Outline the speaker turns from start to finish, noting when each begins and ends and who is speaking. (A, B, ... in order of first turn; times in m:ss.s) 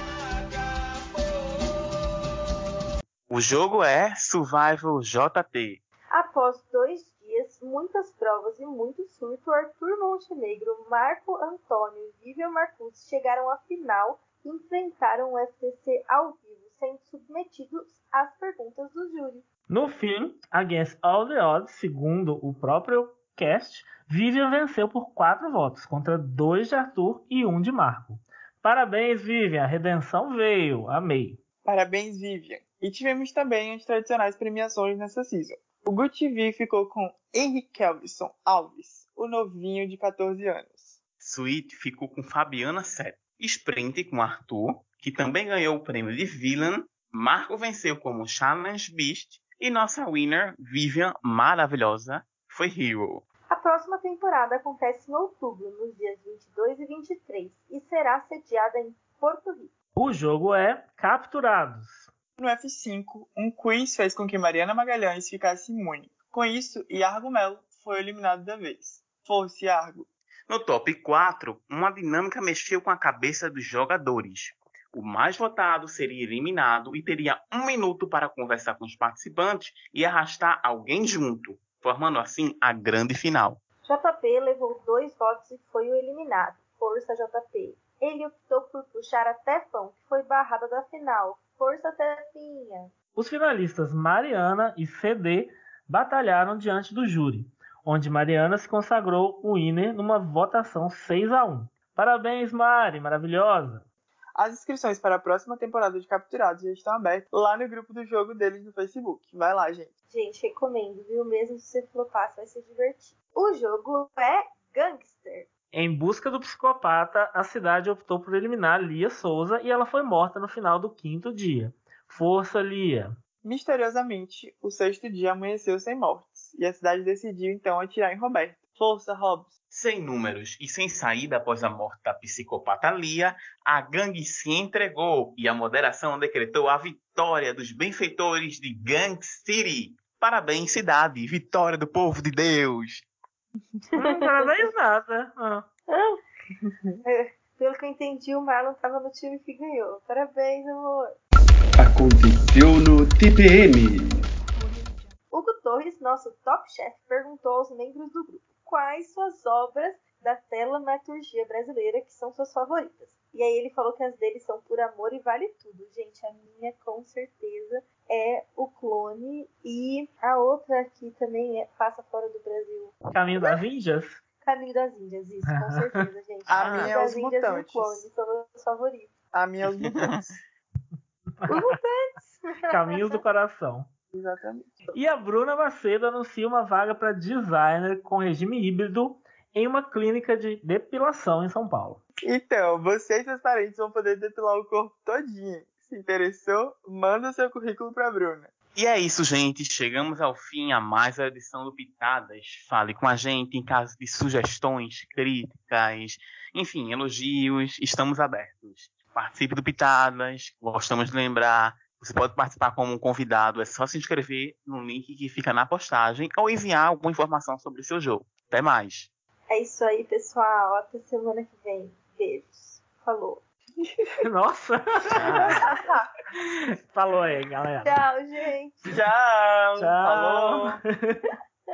0:03.3-0:05.8 A
0:06.1-0:19.4 B
0:19.7-0:31.4 C
0:31.6-0:41.0 D
0:41.2-0:53.3 A
0:53.5-0:59.7 B
1:00.0-1:02.1 C
1:02.4-1:10.1 D
1:10.5-1:23.6 A
1:23.8-1:32.9 B
1:33.2-1:43.8 C
1:44.4-1:49.9 D
1:50.1-1:55.5 B
1:55.7-2:03.1 C
2:03.4-2:09.5 D
2:09.7-2:23.1 A
2:24.0-2:24.6 B
2:24.0-2:25.7 C
2:25.9-2:26.2 B
2:26.6-2:27.0 D
2:27.0-2:31.2 B
2:31.8-2:34.3 E
2:35.3-2:53.6 B
2:53.1-2:54.2 C
2:54.4-2:59.1 B
2:55.5-2:56.0 C
2:56.5-2:58.1 D
2:56.5-2:56.9 A
2:59.3-3:00.4 D
2:59.8-3:00.1 A
3:01.4-3:01.8 C
3:01.5-3:03.2 B
3:02.7-3:03.9 C
3:04.1-3:04.8 D
3:04.9-3:12.0 C
3:12.2-3:18.5 D
3:18.8-3:39.1 A
3:39.5-3:43.4 B
3:43.8-3:44.2 D
3:44.2-3:45.7 C
3:45.2-3:46.1 D
3:46.4-3:48.0 C
3:47.8-3:48.9 B
3:48.9-3:50.8 D
3:49.8-3:51.2 C